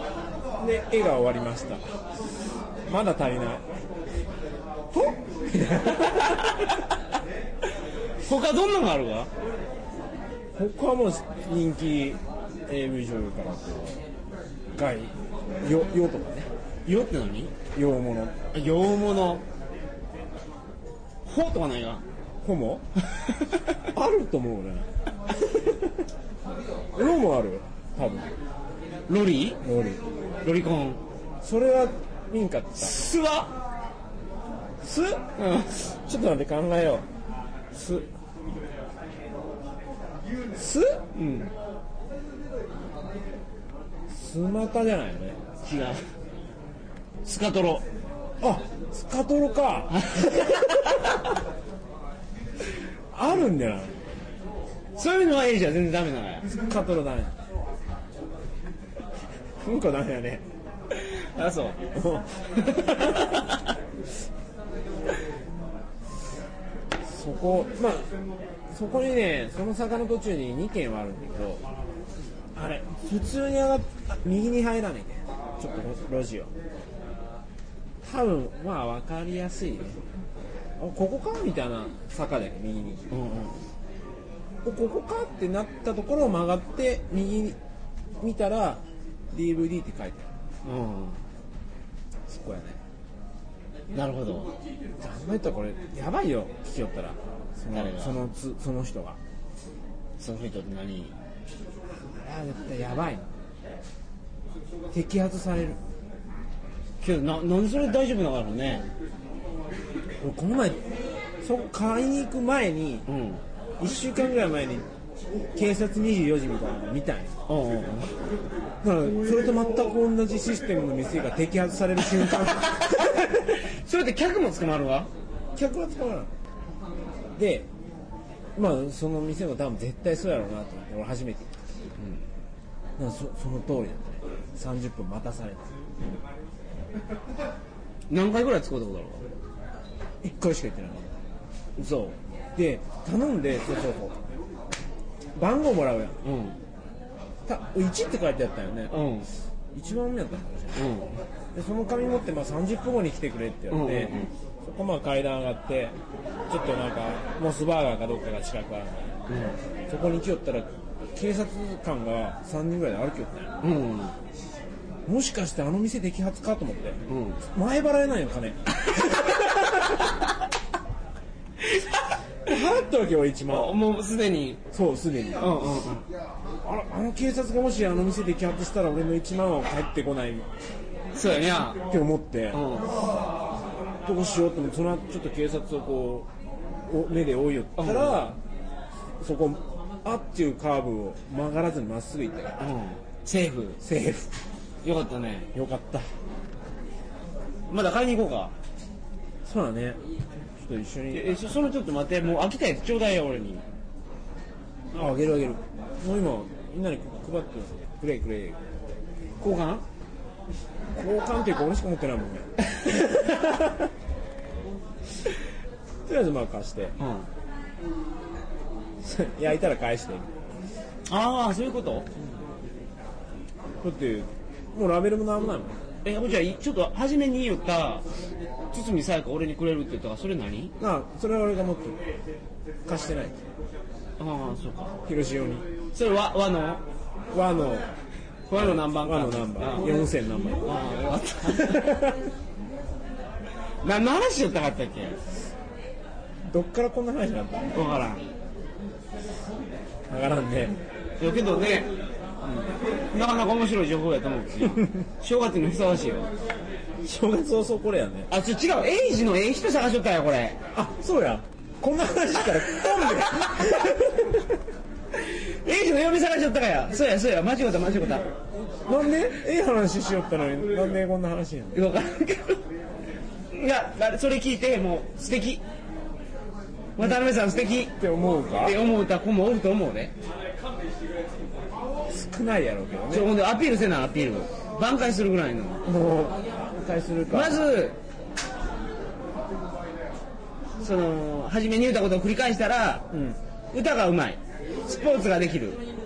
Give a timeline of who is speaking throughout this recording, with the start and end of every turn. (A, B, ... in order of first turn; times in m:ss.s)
0:00.6-0:01.8 A
0:02.9-0:03.7 A
0:04.9-0:06.7 A
0:06.2-0:06.8 B
0:08.2-0:09.3 B
0:10.5-0:14.0 A
0:14.7-0:16.5 A
0:16.8-0:17.5 B
0:17.7-0:18.3 A
0:18.5-0:19.4 B
0:21.2-0:22.0 B
0:22.4-0:22.8 A
0:23.8-0:24.9 A
0:25.5-0:25.8 A
0:26.9-0:28.3 A
0:29.1-0:29.6 B
0:29.6-0:30.0 A
0:30.4-0:31.0 B
0:31.4-0:32.9 A
0:32.8-0:33.5 B
0:34.8-0:35.2 A
0:35.4-0:35.8 B
0:35.7-0:37.0 A
0:37.7-0:38.1 A
0:40.5-0:41.0 A
0:41.1-0:41.5 B
0:44.1-0:45.4 A
0:45.6-0:46.0 B
0:47.2-0:47.8 B
0:48.4-0:50.9 A
0:49.9-0:51.3 B
0:53.1-0:53.9 A
0:55.0-0:56.4 B
0:56.5-0:57.3 A
0:59.6-1:00.4 A
1:00.9-1:01.8 B
1:01.9-1:03.4 A
1:02.9-1:03.6 B
1:07.0-1:08.1 A
1:08.7-1:11.6 A
1:12.5-1:16.5 A
1:18.0-1:20.0 A
1:20.8-1:23.1 A
1:23.1-1:23.6 B
1:24.6-1:27.6 A
1:28.2-1:30.3 A
1:30.6-1:31.2 B
1:32.3-1:32.8 A
1:33.9-1:34.5 B
1:35.0-1:39.2 A
1:37.7-1:38.2 B
1:40.2-1:41.1 B
1:41.9-1:43.2 A
1:44.9-1:45.8 A
1:47.0-1:48.8 B
1:50.2-1:50.8 A
1:51.4-1:53.0 A
1:53.1-1:53.4 B
1:53.8-1:54.8 A
1:55.5-1:57.3 A
1:57.5-1:58.2 B
1:58.8-2:03.3 A
2:02.5-2:05.1 B
2:05.5-2:06.3 A
2:07.4-2:07.7 A
2:08.6-2:11.6 A
2:13.0-2:15.7 A
2:18.1-2:19.2 B
2:20.2-2:21.1 A
2:21.8-2:22.2 B
2:22.6-2:24.2 A
2:25.4-2:26.2 A
2:26.2-2:26.6 B
2:27.5-2:28.9 A
2:28.9-2:29.3 B
2:29.7-2:30.8 A
2:30.7-2:31.2 B
2:31.5-2:36.0 A
2:33.7-2:34.3 B
2:36.5-2:39.1 A
2:39.3-2:39.6 B
2:39.9-2:43.5 A
2:43.6-2:44.1 B
2:45.0-2:50.0 A
2:47.1-2:47.4 B
2:51.6-2:52.2 B
2:52.4-2:53.8 A
2:53.5-2:54.6 B
2:54.7-2:55.7 A
2:55.4-2:56.0 B
2:56.6-3:00.5 A
3:01.1-3:01.8 B
3:01.9-3:02.6 A
3:02.5-3:02.9 B
3:04.0-3:06.3 A
3:06.9-3:08.4 A
3:07.8-3:08.3 B
3:09.2-3:12.6 A
3:12.6-3:13.8 B
3:13.8-3:14.3 A
3:14.8-3:15.5 B
3:15.5-3:16.1 A
3:17.7-3:18.5 B
3:19.4-3:20.0 A
3:20.6-3:21.3 A
3:21.1-3:23.6 B
3:24.9-3:28.6 A
3:29.4-3:29.8 B
3:30.9-3:33.9 A
3:36.0-3:37.0 A
3:37.0-3:37.3 B
3:39.0-3:40.3 A
3:41.1-3:42.1 B
3:43.8-3:45.8 A
3:46.0-3:48.0 B
3:48.7-3:50.7 B
3:50.8-3:52.0 A
3:52.8-3:53.4 A
3:54.2-3:54.9 B
3:55.0-3:55.6 A
3:55.9-3:56.8 B
3:57.3-3:57.9 A
3:58.5-3:59.9 B
3:58.5-4:00.7 A
4:00.6-4:02.0 B
4:01.4-4:02.3 A
4:03.8-4:05.2 B
4:06.5-4:07.7 A
4:07.7-4:08.2 B
4:10.1-4:10.8 A
4:11.2-4:11.9 B
4:12.4-4:12.7 A
4:13.1-4:16.3 B
4:14.6-4:14.9 A
4:17.0-4:18.3 A
4:18.3-4:20.6 B
4:20.7-4:24.5 A
4:22.5-4:23.5 B
4:25.1-4:28.3 B
4:28.6-4:31.8 A
4:31.7-4:32.6 B
4:33.5-4:35.6 B
4:37.0-4:37.9 B
4:37.8-4:38.8 A
4:38.5-4:40.1 B
4:42.1-4:43.3 A
4:43.1-4:45.8 B
4:45.8-4:47.6 A
4:47.3-4:48.0 B
4:50.8-4:53.1 B
4:53.1-4:53.4 A
4:53.7-4:55.8 B